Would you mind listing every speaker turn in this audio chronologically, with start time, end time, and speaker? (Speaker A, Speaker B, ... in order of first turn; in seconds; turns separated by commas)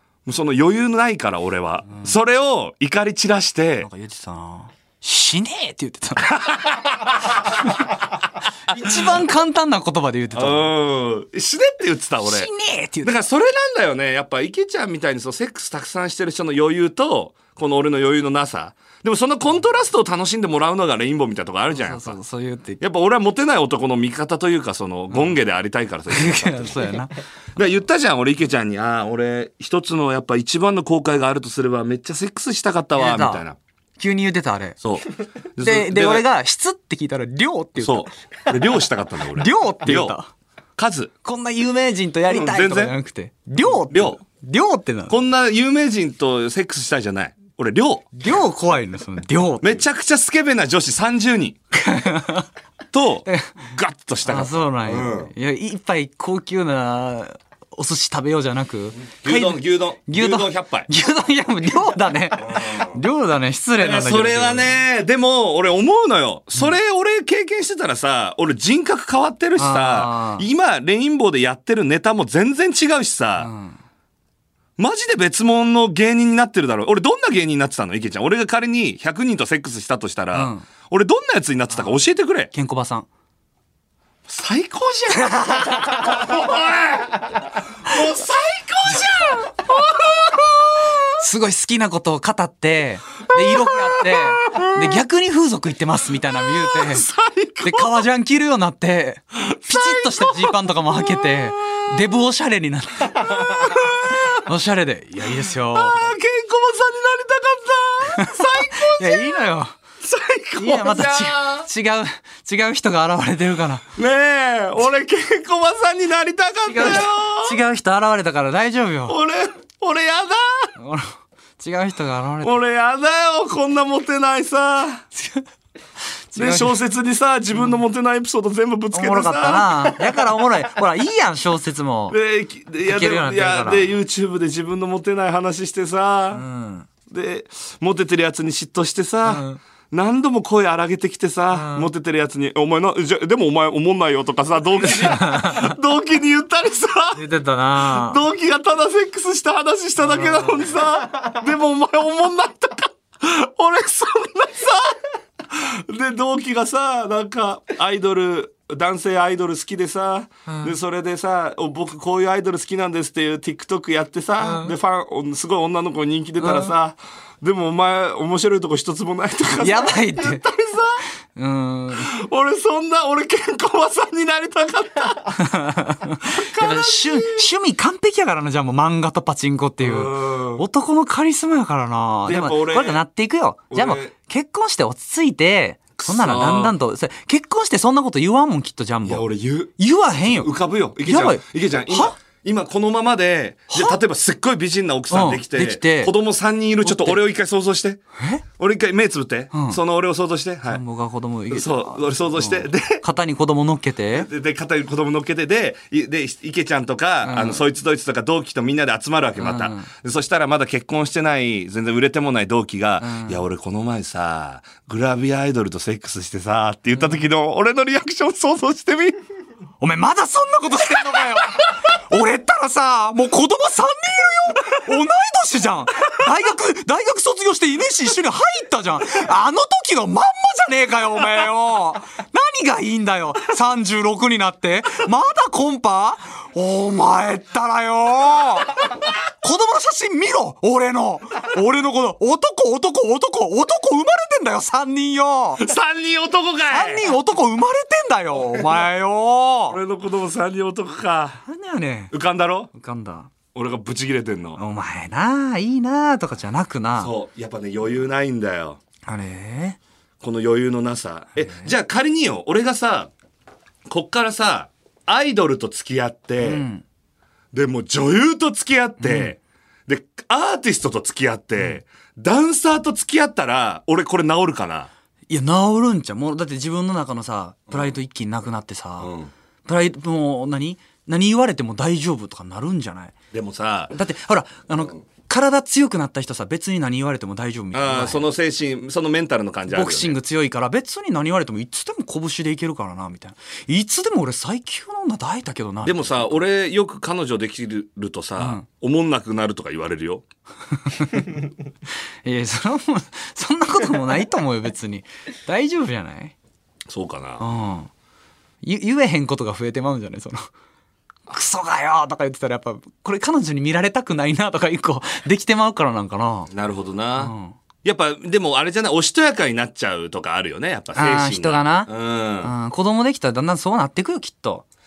Speaker A: 0.3-3.9, Speaker B: 3.8-6.4, Speaker A: 6.3-7.5, Speaker B: 8.7-10.7, Speaker A: 8.7-9.1, Speaker A: 10.3-12.5, Speaker B: 12.2-13.2, Speaker A: 13.0-22.2, Speaker B: 21.7-22.8, Speaker A: 22.8-27.0, Speaker B: 25.1-25.4, Speaker B: 26.1-27.1, Speaker A: 27.6-33.6, Speaker B: 33.0-33.4, Speaker B: 34.0-34.8, Speaker A: 34.8-36.3, Speaker B: 35.6-38.1, Speaker A: 37.8-40.2, Speaker B: 39.3-40.3, Speaker A: 40.8-41.1, Speaker B: 41.2-45.2, Speaker A: 42.3-42.9, Speaker A: 43.7-44.2, Speaker A: 45.1-48.1, Speaker B: 48.1-49.8, Speaker A: 49.6-51.6, Speaker B: 51.7-52.5, Speaker A: 52.9-55.3, Speaker B: 53.2-53.6, Speaker B: 54.2-64.8, Speaker A: 59.1-60.9, Speaker A: 62.4-62.9, Speaker A: 63.8-73.5, Speaker B: 69.6-70.5, Speaker B: 73.4-73.8, Speaker A: 74.8-82.5, Speaker B: 80.3-80.7, Speaker B: 82.5-83.1, Speaker A: 84.3-91.0, Speaker B: 85.1-86.3, Speaker B: 91.2-97.1, Speaker A: 93.4-95.0, Speaker A: 96.5-98.0, Speaker B: 97.6-106.1, Speaker A: 99.4-101.9, Speaker A: 103.2-104.4, Speaker A: 105.2-109.5, Speaker B: 108.1-109.8, Speaker A: 110.0-111.7, Speaker B: 110.6-113.9, Speaker A: 114.0-117.6, Speaker B: 116.7-119.2, Speaker A: 119.1-120.7, Speaker B: 120.8-122.5, Speaker A: 122.4-125.0, Speaker B: 125.2-125.5, Speaker B: 126.3-126.8, Speaker A: 126.4-130.2, Speaker B: 128.9-132.2, Speaker A: 132.1-136.4, Speaker B: 132.8-133.9, Speaker B: 136.3-136.9, Speaker A: 137.1-147.2, Speaker B: 139.3-139.6, Speaker B: 141.5-141.9, Speaker B: 144.8-145.8, Speaker B: 147.2-148.2, Speaker A: 147.8-171.0, Speaker B: 150.0-150.7, Speaker B: 160.5-160.7, Speaker B: 164.4-164.7, Speaker B: 166.4-166.7, Speaker B: 169.6-170.4, Speaker B: 171.3-172.1, Speaker A: 172.0-175.4, Speaker B: 175.4-189.2, Speaker A: 176.2-177.5, Speaker A: 179.8-180.6, Speaker A: 182.3-183.0, Speaker A: 183.7-184.1, Speaker A: 186.0-186.8, Speaker A: 189.1-189.7, Speaker B: 189.8-190.5, Speaker A: 190.2-198.0, Speaker B: 191.0-192.2, Speaker B: 193.7-194.0, Speaker B: 195.1-196.1, Speaker B: 196.8-197.2, Speaker B: 198.2-198.4, Speaker A: 198.6-200.8, Speaker B: 199.5-199.8, Speaker B: 200.7-204.3, Speaker A: 201.5-203.0, Speaker A: 204.1-219.2, Speaker B: 207.2-207.7, Speaker B: 209.4-209.9, Speaker B: 213.0-213.4, Speaker B: 219.8-245.7, Speaker A: 245.6-247.1, Speaker B: 246.7-249.8, Speaker A: 248.5-248.8, Speaker A: 249.7-251.4, Speaker B: 251.4-252.1, Speaker A: 252.1-252.7, Speaker B: 252.7-253.3, Speaker A: 253.5-254.6, Speaker B: 254.6-257.1, Speaker A: 257.0-258.8, Speaker B: 259.1-259.8, Speaker A: 260.2-263.1, Speaker A: 263.9-266.6, Speaker B: 266.4-266.8, Speaker A: 267.5-274.9, Speaker B: 269.0-269.3, Speaker B: 275.3-279.1, Speaker A: 279.0-279.3, Speaker B: 279.6-283.2, Speaker A: 283.3-283.9, Speaker B: 283.9-288.3, Speaker A: 287.7-290.2, Speaker B: 289.7-296.4, Speaker A: 295.8-300.2, Speaker B: 298.4-298.7, Speaker B: 300.8-301.3, Speaker B: 302.2-306.4, Speaker A: 306.9-307.4, Speaker B: 307.4-307.9, Speaker B: 308.6-310.5, Speaker B: 311.3-316.5, Speaker A: 316.5-317.3, Speaker B: 317.2-317.6, Speaker A: 317.8-322.5, Speaker B: 320.9-321.9, Speaker B: 322.4-324.6